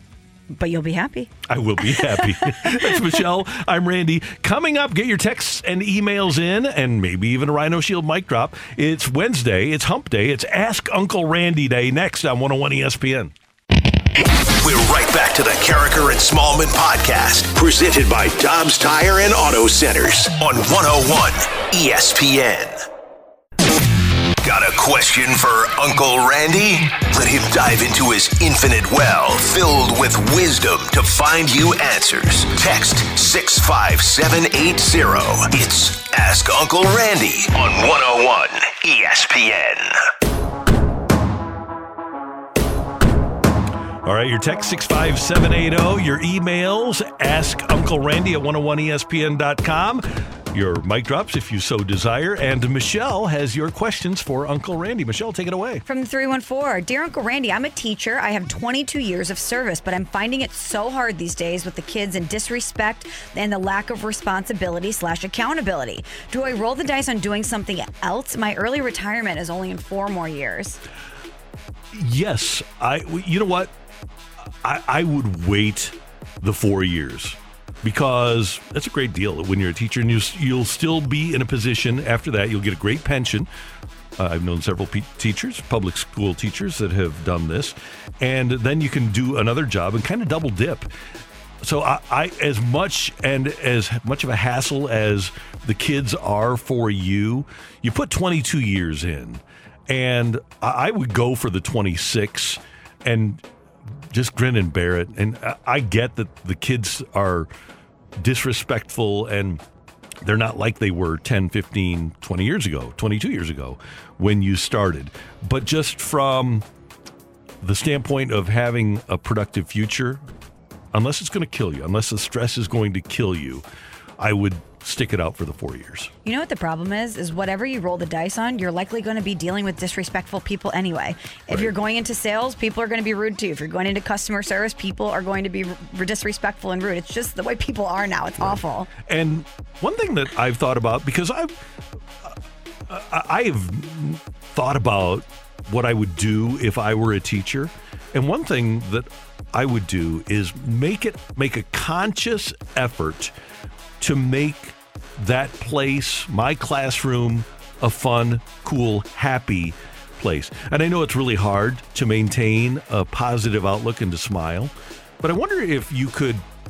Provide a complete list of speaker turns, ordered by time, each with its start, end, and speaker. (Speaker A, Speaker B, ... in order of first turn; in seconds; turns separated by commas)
Speaker A: 0.5-1.3, Speaker B: 1.5-13.3, Speaker A: 1.8-2.8, Speaker C: 14.6-22.8, Speaker C: 24.4-39.9, Speaker B: 44.0-55.8, Speaker A: 55.9-70.8, Speaker B: 71.9-73.7, Speaker B: 74.6-83.5, Speaker B: 84.2-90.9, Speaker B: 91.6-103.4, Speaker B: 104.1-107.5, Speaker B: 108.2-109.6, Speaker B: 110.2-116.6, Speaker B: 117.6-120.2, Speaker B: 120.9-123.6, Speaker B: 124.2-126.1, Speaker A: 126.2-138.9, Speaker B: 138.4-141.5, Speaker B: 142.9-153.3, Speaker B: 154.0-166.4